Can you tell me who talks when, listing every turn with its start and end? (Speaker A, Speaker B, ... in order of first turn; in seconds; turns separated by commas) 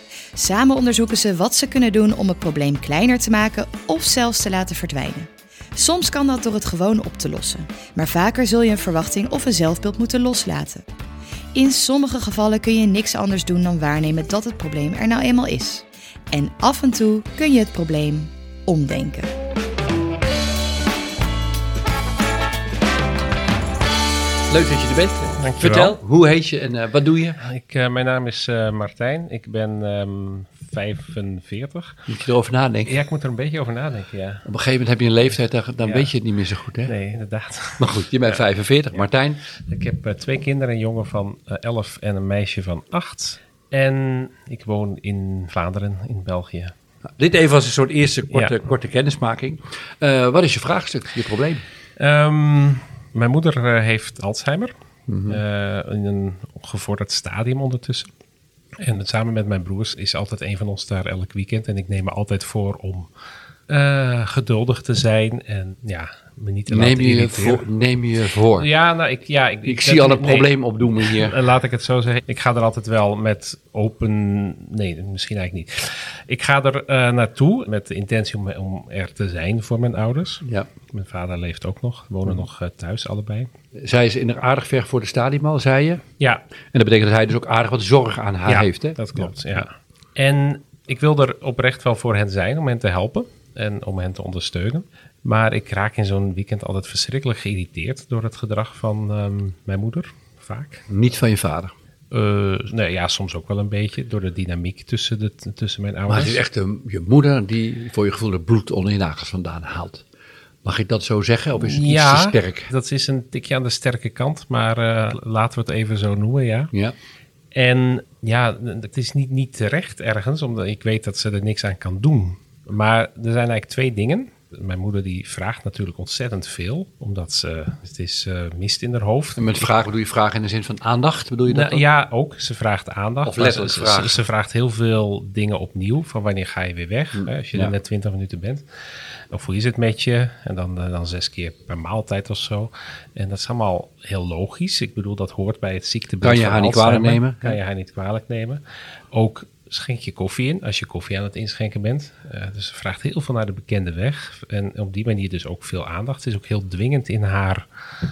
Speaker A: 0.3-10.8, Speaker A: 11.5-19.3, Speaker B: 24.5-27.4, Speaker C: 25.4-25.9, Speaker C: 27.4-32.1, Speaker B: 32.1-33.0, Speaker C: 32.9-34.4, Speaker B: 34.4-36.9, Speaker C: 36.9-38.0, Speaker B: 37.8-39.4, Speaker C: 38.9-46.7, Speaker B: 47.2-51.6, Speaker C: 52.0-54.7, Speaker B: 55.1-55.4, Speaker C: 55.3-58.1, Speaker C: 58.8-63.1, Speaker C: 63.7-67.6, Speaker B: 66.7-68.7, Speaker C: 68.6-83.5, Speaker B: 69.6-71.4, Speaker B: 83.8-86.0, Speaker B: 86.7-89.3, Speaker C: 88.5-100.8, Speaker B: 100.9-101.7, Speaker C: 102.1-106.4, Speaker B: 106.1-110.0, Speaker B: 110.6-112.7, Speaker C: 111.6-116.7, Speaker C: 117.5-129.7, Speaker B: 129.4-131.8, Speaker C: 131.5-138.6, Speaker B: 133.2-134.2, Speaker B: 137.1-137.7, Speaker C: 139.3-148.6, Speaker B: 146.2-147.6, Speaker C: 149.1-157.7